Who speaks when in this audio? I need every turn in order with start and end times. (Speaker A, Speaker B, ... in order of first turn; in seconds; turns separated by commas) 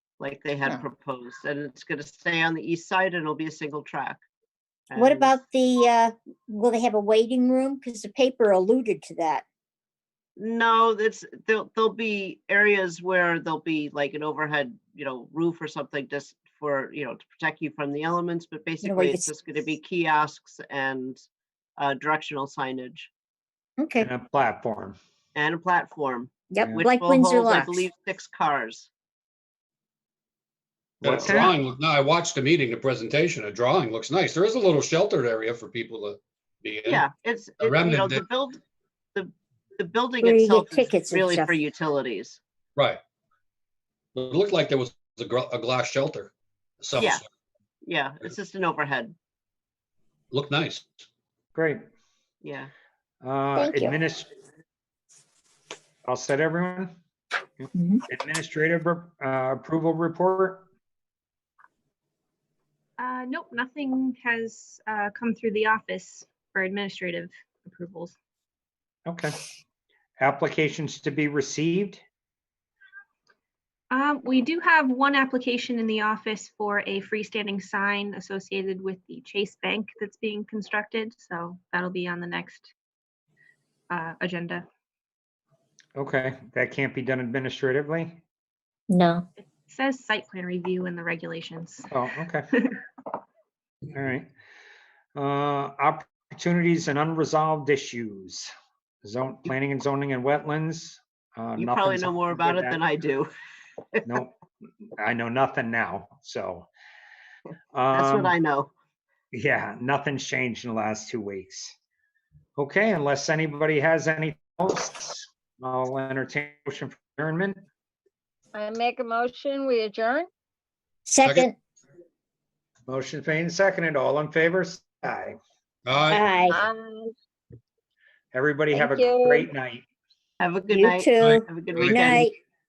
Speaker A: 0.2-4.2, Speaker A: 4.9-5.3, Speaker B: 5.0-9.4, Speaker A: 10.4-21.2, Speaker B: 18.8-19.3, Speaker A: 21.8-23.1, Speaker B: 23.8-24.1, Speaker C: 24.0-25.0, Speaker A: 25.3-28.9, Speaker B: 26.5-27.9, Speaker C: 26.6-26.8, Speaker C: 31.0-31.5, Speaker D: 31.0-37.0, Speaker A: 36.9-38.6, Speaker D: 37.6-38.2, Speaker A: 39.1-42.4, Speaker B: 40.2-41.5, Speaker D: 44.1-47.2, Speaker A: 47.0-47.2, Speaker A: 47.8-49.1, Speaker D: 50.3-50.9, Speaker C: 51.5-51.8, Speaker A: 52.4-52.7, Speaker C: 53.2-54.3, Speaker B: 53.5-53.9, Speaker C: 56.1-56.9, Speaker C: 57.6-60.7, Speaker B: 57.8-58.0, Speaker E: 63.0-68.2, Speaker C: 69.0-69.4, Speaker C: 70.2-72.0, Speaker E: 73.9-82.7, Speaker E: 83.9-84.7, Speaker C: 86.0-88.2, Speaker B: 88.9-89.2, Speaker E: 89.4-91.9, Speaker C: 91.9-92.5, Speaker C: 93.9-94.3, Speaker C: 95.2-98.5, Speaker C: 99.0-102.8, Speaker A: 101.6-103.3, Speaker C: 104.0-106.7, Speaker C: 107.7-108.3, Speaker A: 107.9-108.7, Speaker C: 109.3-111.7, Speaker C: 112.6-117.6, Speaker F: 118.5-120.3, Speaker B: 121.1-121.5, Speaker D: 121.2-121.5, Speaker C: 122.9-125.4, Speaker D: 125.8-126.2, Speaker A: 126.1-126.4, Speaker B: 126.1-126.6, Speaker F: 126.5-127.1, Speaker C: 128.3-129.8, Speaker F: 128.7-129.5, Speaker A: 130.4-132.3, Speaker B: 130.7-132.3, Speaker D: 131.2-132.2